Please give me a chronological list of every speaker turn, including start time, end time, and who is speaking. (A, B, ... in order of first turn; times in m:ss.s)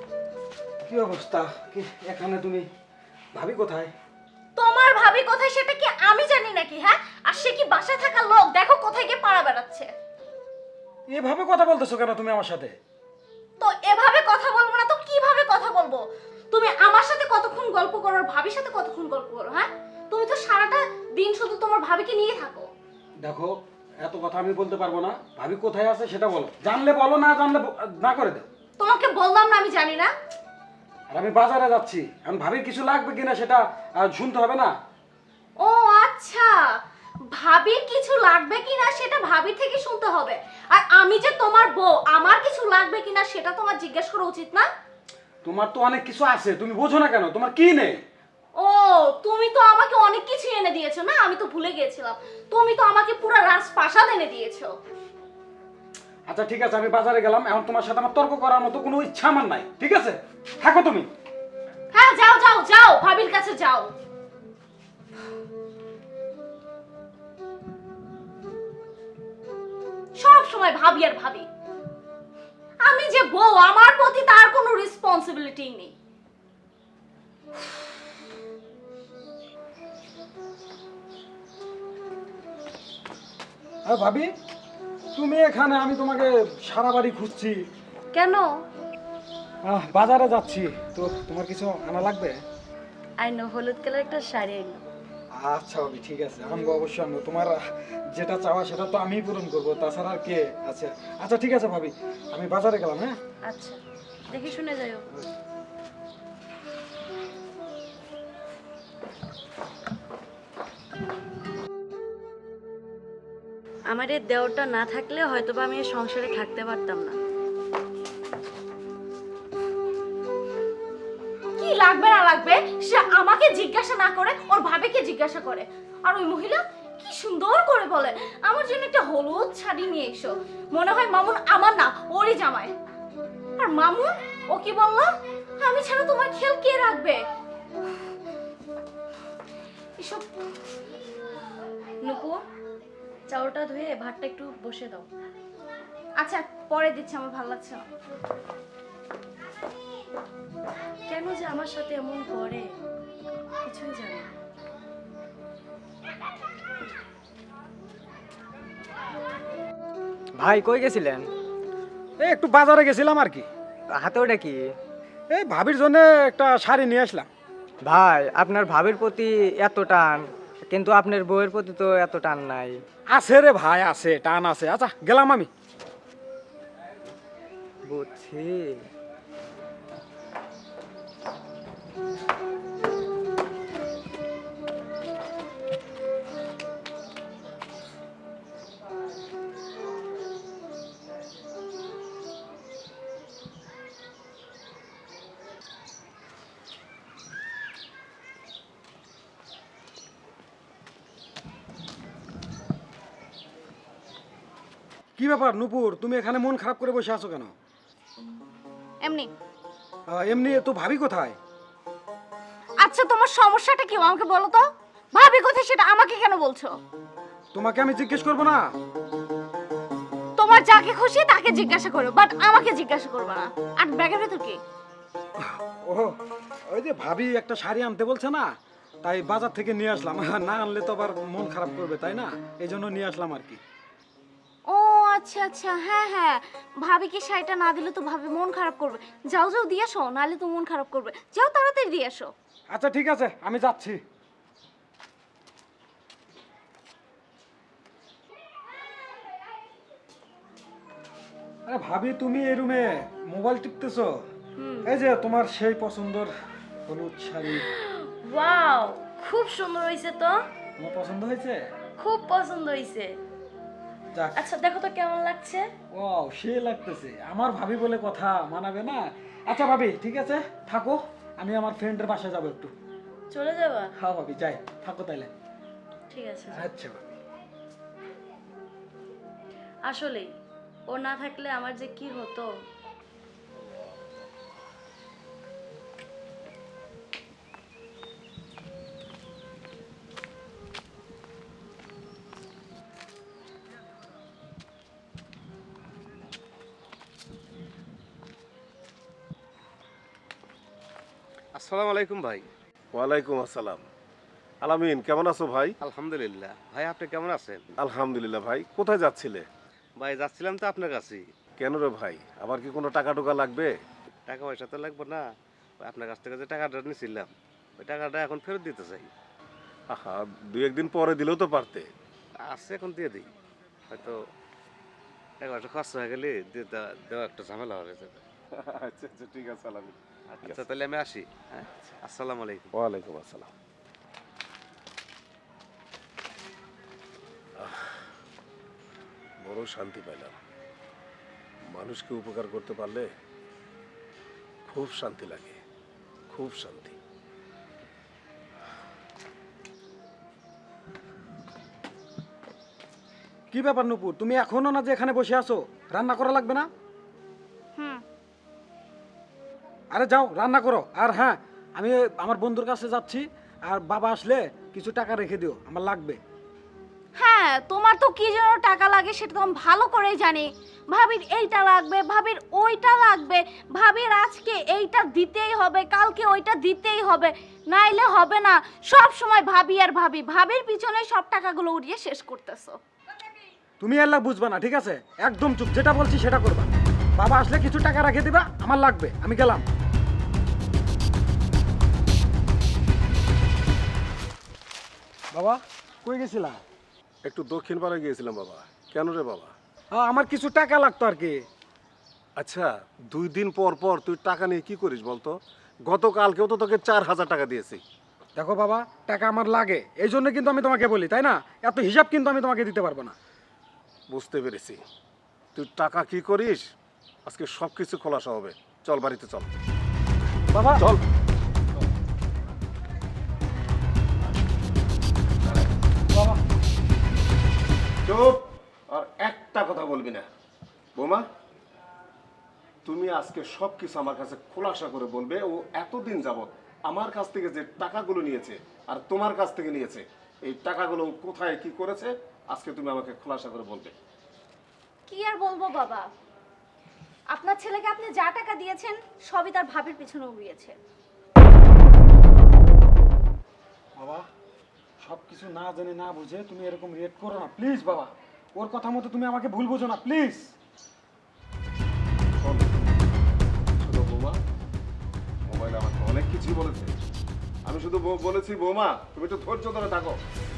0:00.9-0:02.7 A
0:03.3-0:03.9 A
0:04.6-0:09.9 B
0:11.1-0:12.8 A
0:13.6-0:22.7 B
0:23.2-0:28.5 A
0:28.8-0:30.1 B
0:31.1-0:34.7 A
0:35.6-0:36.7 B
0:37.3-0:44.7 B
0:45.4-0:48.0 A
0:48.6-0:54.8 B
0:56.3-1:01.1 A
1:01.9-1:03.9 B
1:10.2-1:11.5 B
1:12.8-1:15.9 B
1:23.9-1:24.3 A
1:25.1-1:27.6 A
1:28.2-1:28.4 C
1:29.6-1:32.4 A
1:33.2-1:34.8 C
1:35.4-1:43.2 A
1:43.4-1:45.1 C
1:53.9-1:57.2 C
2:01.6-2:12.7 B
2:13.6-2:17.2 B
2:20.0-2:20.4 B
2:22.0-2:22.4 C
2:23.3-2:25.1 C
2:26.2-2:27.9 B
2:31.1-2:32.7 C
2:33.6-2:34.3 C
2:40.4-2:41.3 D
2:42.2-2:43.5 A
2:43.9-2:44.7 D
2:45.3-2:47.3 A
2:47.8-2:52.8 D
2:53.1-2:55.5 A
2:57.9-2:58.8 D
3:25.2-3:27.5 A
3:29.0-3:29.3 B
3:30.1-3:31.4 A
3:32.8-3:36.8 B
3:37.5-3:38.7 A
3:40.4-3:44.6 B
3:45.4-3:46.2 A
3:46.7-3:48.5 A
3:49.0-3:53.6 A
3:54.7-4:02.3 B
4:02.7-4:04.0 A
4:11.7-4:14.2 A
4:14.6-4:14.9 C
4:14.8-4:16.3 A
4:16.9-4:17.7 A
4:17.6-4:20.4 C
4:20.8-4:21.6 A
4:22.0-4:23.2 C
4:24.2-4:24.5 A
4:24.4-4:25.7 C
4:25.9-4:32.7 A
4:33.3-4:33.9 C
4:34.0-4:35.3 A
4:36.1-4:36.7 C
4:36.5-4:37.1 A
4:39.8-4:40.3 C
4:40.9-4:42.5 C
5:01.6-5:02.5 E
5:02.9-5:03.8 F
5:04.6-5:05.8 F
5:05.8-5:07.6 E
5:07.8-5:09.5 F
5:10.0-5:11.2 E
5:11.6-5:13.7 F
5:14.3-5:15.3 E
5:15.8-5:19.1 E
5:19.9-5:21.9 F
5:22.4-5:23.3 E
5:23.9-5:24.2 E
5:25.4-5:28.2 E
5:28.6-5:30.6 F
5:30.4-5:32.7 E
5:32.7-5:33.5 F
5:37.6-5:37.8 F
5:39.4-5:40.4 F
5:41.7-5:43.1 F
5:44.7-5:45.6 F
5:46.3-5:47.0 F
5:53.5-5:56.7 A
5:57.8-5:58.0 B
5:59.9-6:06.2 A
6:07.2-6:22.8 B
6:23.8-6:29.6 A
6:35.3-6:36.6 A
6:37.2-6:39.5 F
6:39.9-6:41.5 A
6:42.4-6:47.8 F
6:48.4-6:53.2 A
6:54.1-6:54.8 F
6:55.6-6:56.7 F
6:57.2-6:59.5 F
7:00.5-7:00.8 A
7:00.8-7:01.0 F
7:06.1-7:06.4 A
7:08.0-7:08.4 F
7:08.9-7:10.3 F
7:11.0-7:11.2 F
7:12.9-7:23.9 F
7:25.1-7:26.1 B
7:27.3-7:30.8 B
7:34.0-7:34.3 A
7:35.0-7:40.5 A
7:42.4-7:42.7 F
7:43.8-7:44.4 F
7:45.5-7:46.9 F
7:47.7-7:50.2 F